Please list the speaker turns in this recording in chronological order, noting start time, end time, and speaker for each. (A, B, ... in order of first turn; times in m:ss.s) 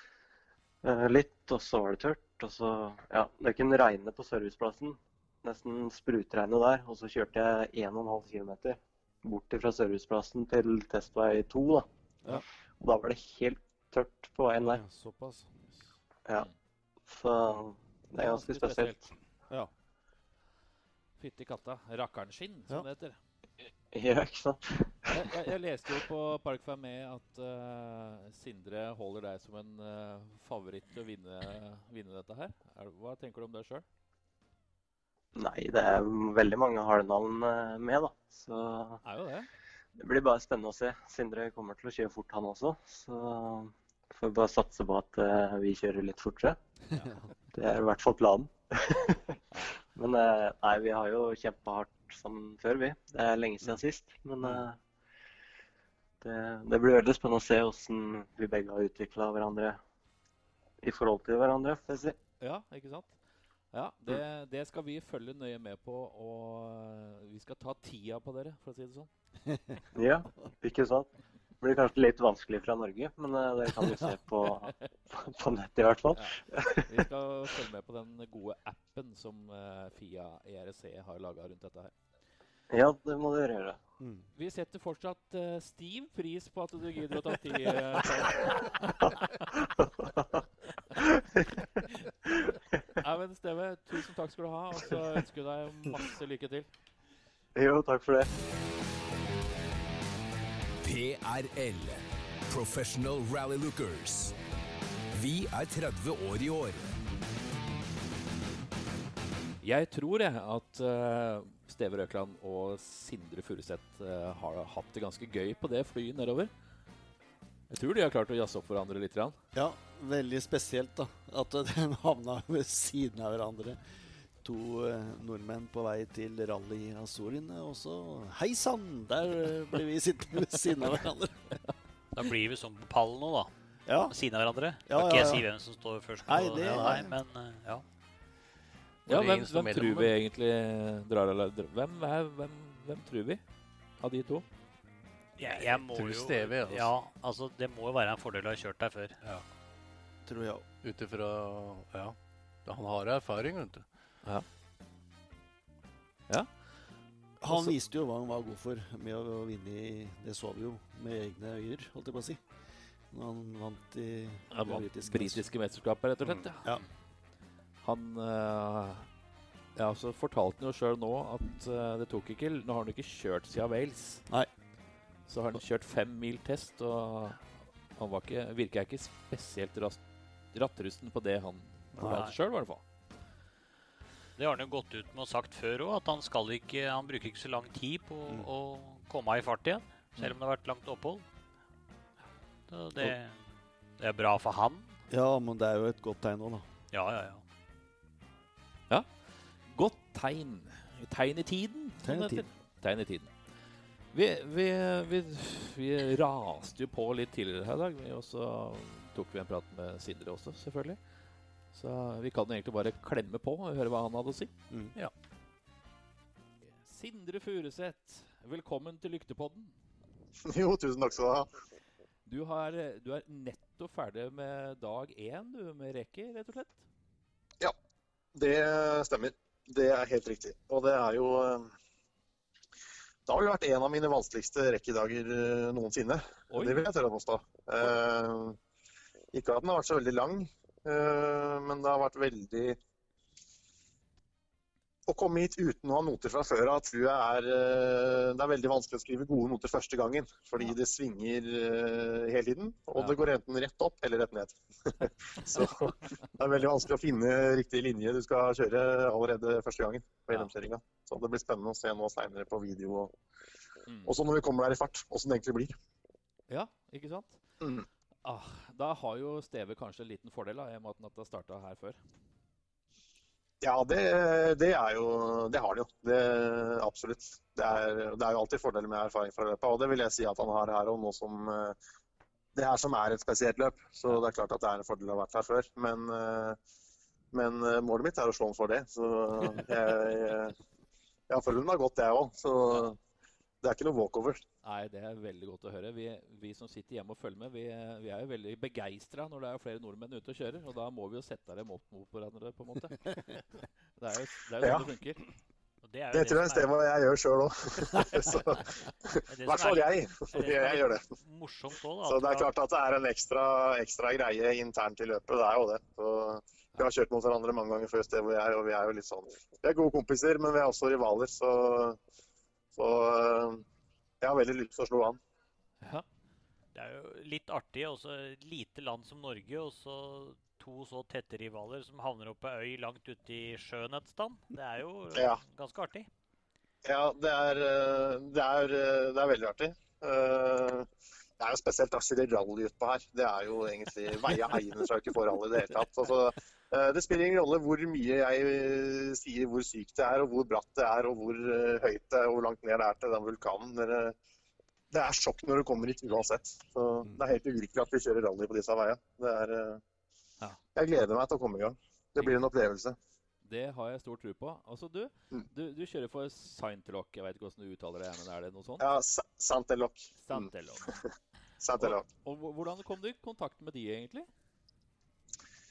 0:00.8-0:14.8 A
0:14.6-0:15.5 B
0:17.1-0:19.1 A
0:18.1-0:19.0 C
0:21.2-0:23.2 C
0:23.9-0:25.1 A
0:25.1-0:33.8 C
0:35.4-0:39.0 A
0:39.0-0:39.5 C
0:40.0-0:46.6 A
0:47.0-0:47.3 B
0:47.5-0:49.4 A
0:49.9-0:54.8 A
0:56.2-0:59.8 A
1:00.8-1:02.2 A
1:02.4-1:03.1 C
1:03.7-1:09.1 C
1:09.9-1:16.9 A
1:16.8-1:21.9 C
1:22.7-1:23.8 A
1:24.0-1:24.3 B
1:24.3-1:29.1 C
1:29.0-1:30.4 A
1:31.0-1:31.6 A
1:33.0-1:36.7 C
1:37.5-1:38.3 A
1:40.8-1:44.3 D
1:45.1-1:47.0 D
1:49.6-1:56.5 C
1:57.7-1:59.4 C
1:59.5-2:11.5 B
2:12.1-2:13.5 E
2:13.8-2:14.1 B
2:14.1-2:17.8 E
2:14.9-2:15.4 B
2:16.2-2:17.2 B
2:19.0-2:20.1 F
2:19.0-2:23.4 C
2:24.0-2:24.4 C
2:25.4-2:29.2 E
2:25.4-2:26.9 F
2:30.2-2:30.6 B
2:30.8-2:33.8 F
2:36.3-2:36.9 C
2:37.4-2:42.4 B
2:37.4-2:37.8 C
2:43.1-2:45.5 B
2:44.5-2:46.8 C
2:47.8-2:49.1 C
2:49.8-2:54.2 C
2:55.3-3:00.0 C
3:00.5-3:02.8 C
3:02.0-3:02.2 B
3:02.1-3:02.3 E
3:04.4-3:11.2 E
3:12.7-3:13.4 E
3:14.0-3:15.0 E
3:15.1-3:16.6 B
3:16.9-3:17.4 E
3:19.7-3:23.3 C
3:22.0-3:22.4 B
3:24.1-3:31.0 C
3:31.7-3:34.5 C
3:34.7-3:34.9 B
3:36.8-3:39.7 C
3:40.4-3:41.5 G
3:42.2-3:46.8 C
3:48.3-3:51.7 G
3:53.3-3:58.6 G
3:56.5-3:56.9 C
3:59.3-4:02.8 G
4:05.1-4:23.1 G
4:23.9-4:24.1 C
4:24.0-4:25.7 G
4:26.5-4:27.4 C
4:28.2-4:32.0 C
4:33.6-4:41.8 G
4:42.5-4:46.6 G
4:47.3-4:50.5 G
4:51.3-4:53.0 G
4:53.6-4:54.4 G
4:54.6-5:03.1 C
5:04.0-5:05.2 C
5:04.6-5:04.9 G
5:05.8-5:06.7 E
5:06.1-5:11.0 G
5:09.3-5:12.5 E
5:12.0-5:22.0 G
5:22.7-5:23.6 G
5:24.2-5:25.2 G
5:26.7-5:36.1 E
5:35.1-5:35.4 G
5:36.8-5:40.9 G
5:41.4-5:54.2 G
5:54.9-5:59.8 G
6:00.8-6:03.0 G
6:03.4-6:08.9 C
6:08.8-6:10.1 G
6:10.2-6:11.0 C
6:11.6-6:12.0 G
6:11.8-6:14.3 C